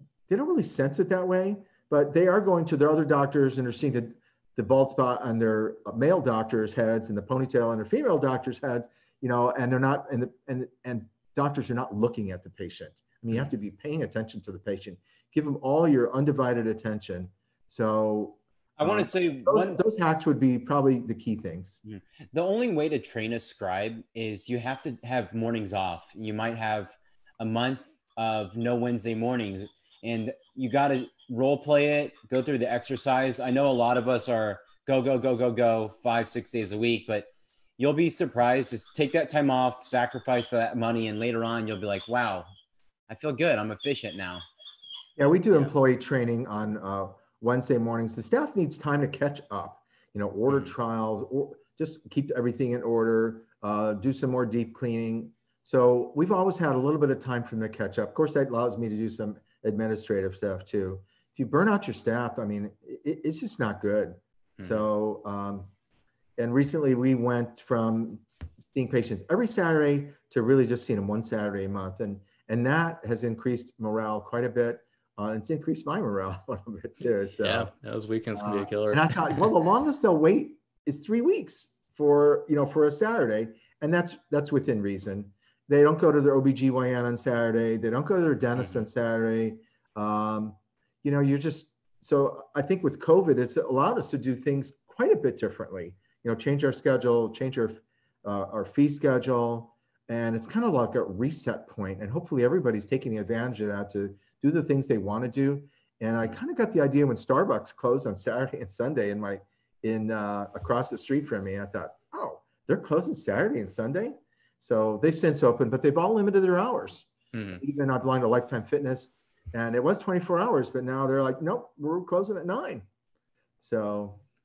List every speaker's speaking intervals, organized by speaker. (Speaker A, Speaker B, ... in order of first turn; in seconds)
Speaker A: 0.3-21.8, 45.2-65.7, 66.4-77.7, 78.3-122.8, 123.6-124.2
Speaker B: 18.8-19.8, 21.9-42.5, 43.1-44.4
Speaker C: 64.6-64.8, 77.4-79.5, 88.5-88.8, 117.3-117.6